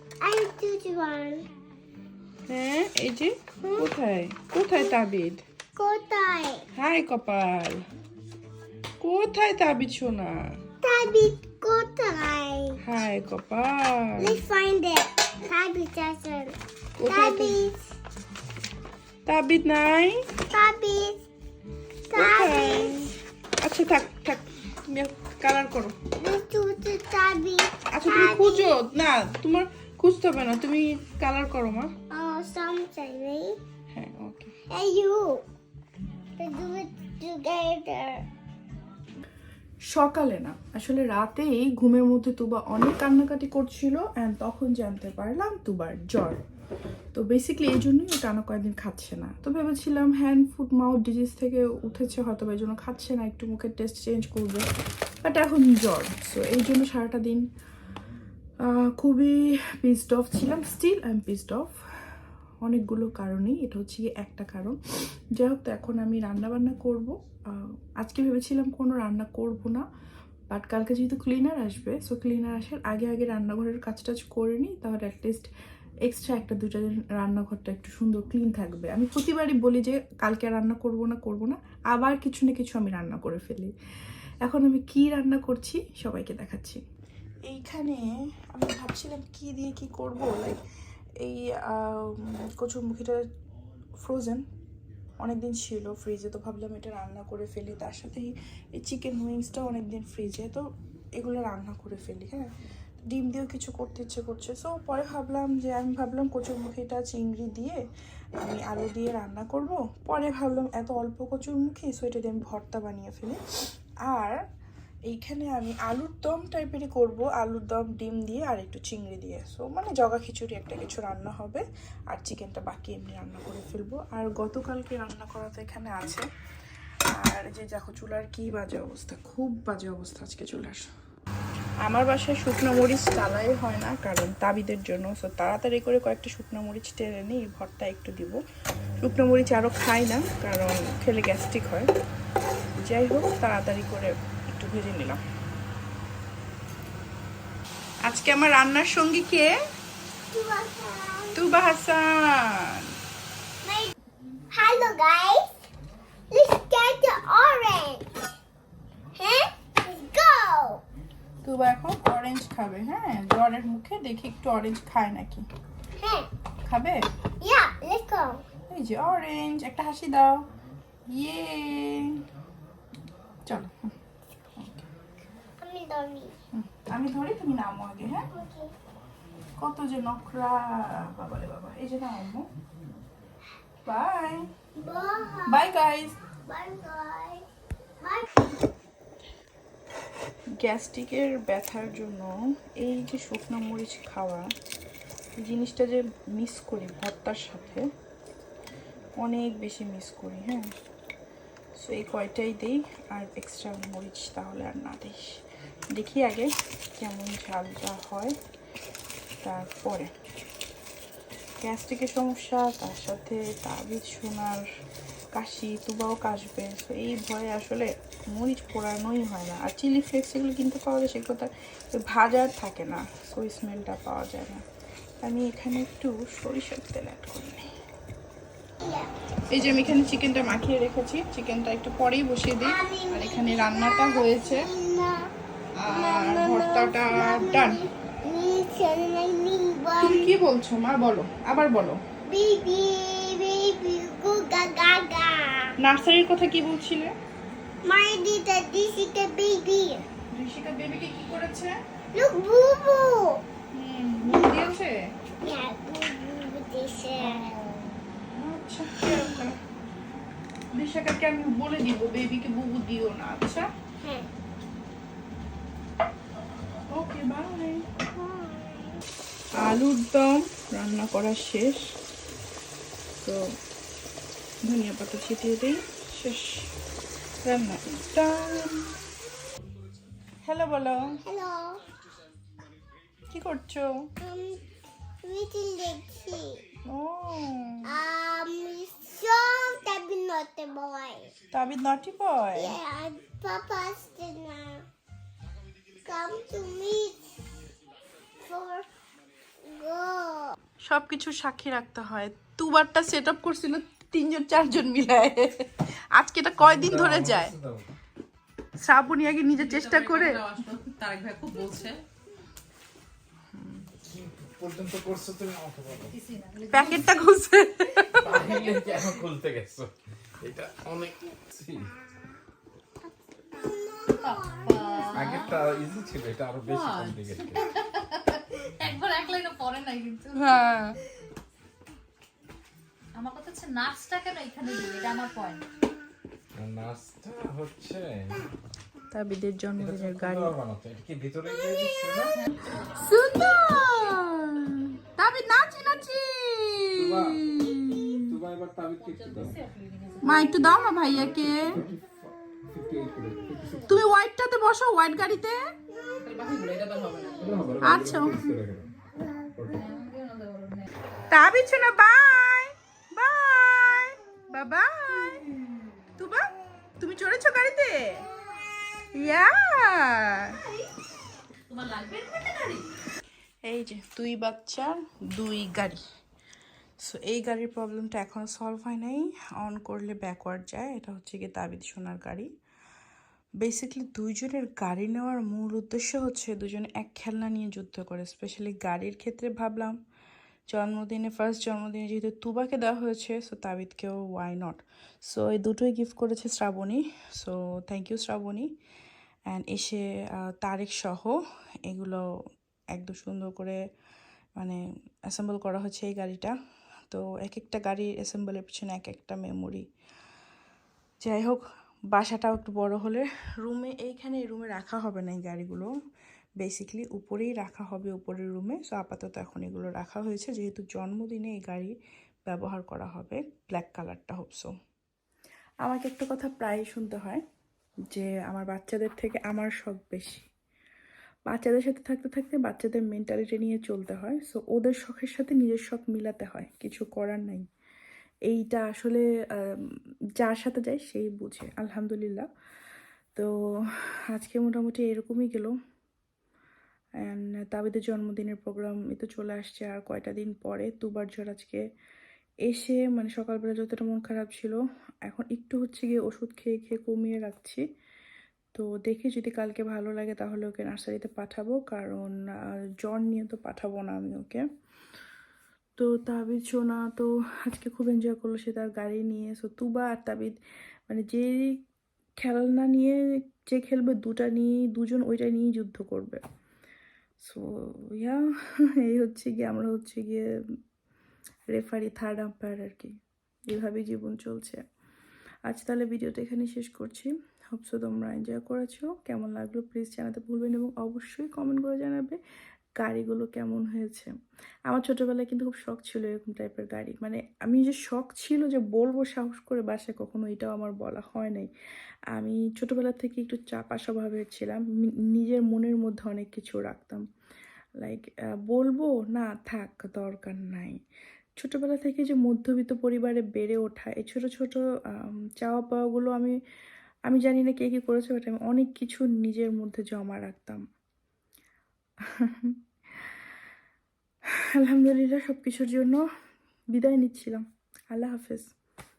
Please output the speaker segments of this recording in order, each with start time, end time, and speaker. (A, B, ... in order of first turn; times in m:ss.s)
0:00.2-0:01.5 A
0:02.5-0:05.4 B
0:03.6-0:03.9 A
0:05.8-0:06.7 A
0:06.7-0:07.8 B
0:09.0-0:10.6 B
0:10.8-0:12.8 A
0:12.8-0:14.4 B
0:14.2-0:17.8 A
0:17.0-0:17.7 B
0:19.2-0:20.2 B
0:20.5-0:21.2 A
0:22.1-0:23.1 A
0:22.1-0:26.0 B
0:26.2-0:28.8 A
0:27.9-0:31.9 B
0:32.1-0:33.6 A
0:33.9-0:34.5 B
0:34.7-0:35.4 A
0:36.4-0:38.2 A
0:39.9-0:46.4 B
0:47.1-0:54.6 B
0:55.2-0:57.4 B
0:58.6-1:01.7 B
1:02.6-1:04.8 B
1:05.3-1:09.8 B
1:10.5-1:15.5 B
1:16.0-1:23.7 B
1:24.4-1:26.8 B
1:27.4-1:30.6 B
1:31.2-1:33.2 B
1:34.0-1:34.4 B
1:35.2-1:42.5 B
1:43.0-1:47.8 B
1:48.4-1:53.4 B
1:54.0-1:54.3 B
1:55.1-2:06.2 B
2:07.2-2:10.9 B
2:11.8-2:18.4 B
2:19.0-2:21.9 B
2:22.8-2:25.2 B
2:28.0-2:29.5 B
2:30.3-2:31.4 A
2:31.3-2:32.9 B
2:33.6-2:33.9 A
2:34.5-2:35.5 A
2:36.3-2:38.0 A
2:39.2-2:40.8 A
2:41.4-2:45.5 B
2:46.0-2:46.3 A
2:46.6-2:47.1 B
2:47.4-2:48.4 A
2:48.7-2:50.4 B
2:51.1-2:52.2 B
2:53.4-2:53.8 B
2:54.6-2:54.9 B
2:55.6-2:56.3 A
2:56.5-2:58.3 B
2:58.3-2:58.7 A
2:59.6-3:02.5 B
3:03.8-3:04.5 B
3:04.7-3:05.6 A
3:05.4-3:06.2 B
3:06.4-3:07.5 A
3:08.0-3:08.3 A
3:10.6-3:14.5 B
3:15.4-3:17.9 B
3:19.2-3:20.7 B
3:21.8-3:25.4 B
3:25.9-3:28.4 B
3:29.4-3:30.1 B
3:31.6-3:34.6 B
3:35.3-3:44.6 B
3:45.2-3:47.7 B
3:48.8-3:49.1 A
3:49.5-3:54.7 B
3:52.6-3:55.3 A
3:55.8-3:57.8 B
3:55.9-4:00.3 A
4:00.0-4:02.0 B
4:02.3-4:05.7 A
4:05.8-4:07.1 B
4:07.8-4:10.0 A
4:10.3-4:11.8 B
4:12.1-4:13.4 A
4:13.7-4:15.0 B
4:14.2-4:14.7 A
4:15.4-4:17.5 A
4:17.2-4:19.6 B
4:20.7-4:23.7 B
4:24.0-4:24.3 A
4:26.9-4:27.9 B
4:28.1-4:28.9 A
4:29.5-4:31.9 B
4:33.2-4:33.5 B
4:34.6-4:36.7 B
4:37.4-4:38.9 B
4:40.4-4:41.2 B
4:41.2-4:41.8 A
4:43.3-4:44.1 B
4:44.2-4:44.6 A
4:45.2-4:46.6 A
4:46.8-4:47.9 B
4:47.8-4:51.3 A
4:51.5-4:52.8 B
4:52.5-4:54.8 A
4:56.0-4:57.3 A
4:58.4-4:58.9 A
4:59.6-5:00.6 A
5:00.9-5:07.5 B
5:06.6-5:07.9 C
5:08.8-5:10.4 B
5:09.5-5:12.0 D
5:13.5-5:13.8 B
5:14.0-5:16.2 C
5:16.1-5:17.3 D
5:16.7-5:18.2 B
5:18.0-5:18.7 D
5:18.1-5:21.9 C
5:23.6-5:25.0 A
5:24.0-5:25.6 D
5:25.1-5:27.7 C
5:26.6-5:30.6 D
5:30.3-5:31.0 B
5:33.1-5:35.6 D
5:36.6-5:38.4 C
5:39.1-5:40.5 B
5:39.8-5:42.4 C
5:42.3-5:42.7 D
5:42.7-5:48.3 B
5:47.0-5:49.6 C
5:49.0-5:50.7 D
5:50.2-5:51.8 B
5:51.1-5:52.2 C
5:52.7-5:54.0 C
5:53.9-5:55.7 B
5:56.2-5:57.8 D
5:57.1-5:57.5 A
5:57.4-5:58.9 C
5:57.8-5:58.5 B
5:59.5-5:59.8 C
5:59.7-6:00.9 D
6:01.3-6:05.5 B
6:06.2-6:06.5 B
6:07.0-6:08.3 B
6:09.1-6:10.6 B
6:11.7-6:12.9 D
6:13.6-6:16.0 B
6:17.0-6:22.5 B
6:23.6-6:30.0 B
6:30.7-6:38.7 B
6:39.5-6:42.2 B
6:42.9-6:43.8 B
6:44.6-6:46.5 B
6:47.1-6:49.8 B
6:51.2-6:55.9 B
6:56.6-7:01.9 B
7:02.5-7:04.7 B
7:05.8-7:07.4 B
7:08.1-7:10.4 B
7:11.5-7:17.6 B
7:18.5-7:22.5 B
7:24.3-7:25.7 B
7:27.2-7:31.8 B
7:32.7-7:37.8 B
7:38.7-7:44.6 B
7:46.0-7:50.6 B
7:51.1-7:51.8 B
7:52.4-7:56.4 B
7:57.4-7:58.4 B
7:59.0-8:00.5 B
8:01.7-8:03.1 B
8:03.7-8:04.8 B
8:05.6-8:12.4 B
8:13.0-8:14.3 B
8:14.9-8:21.7 B
8:22.3-8:27.2 B
8:28.0-8:31.0 B
8:31.6-8:36.6 B
8:37.3-8:40.8 B
8:42.3-8:42.8 B
8:44.8-8:46.2 B
8:46.9-8:48.7 B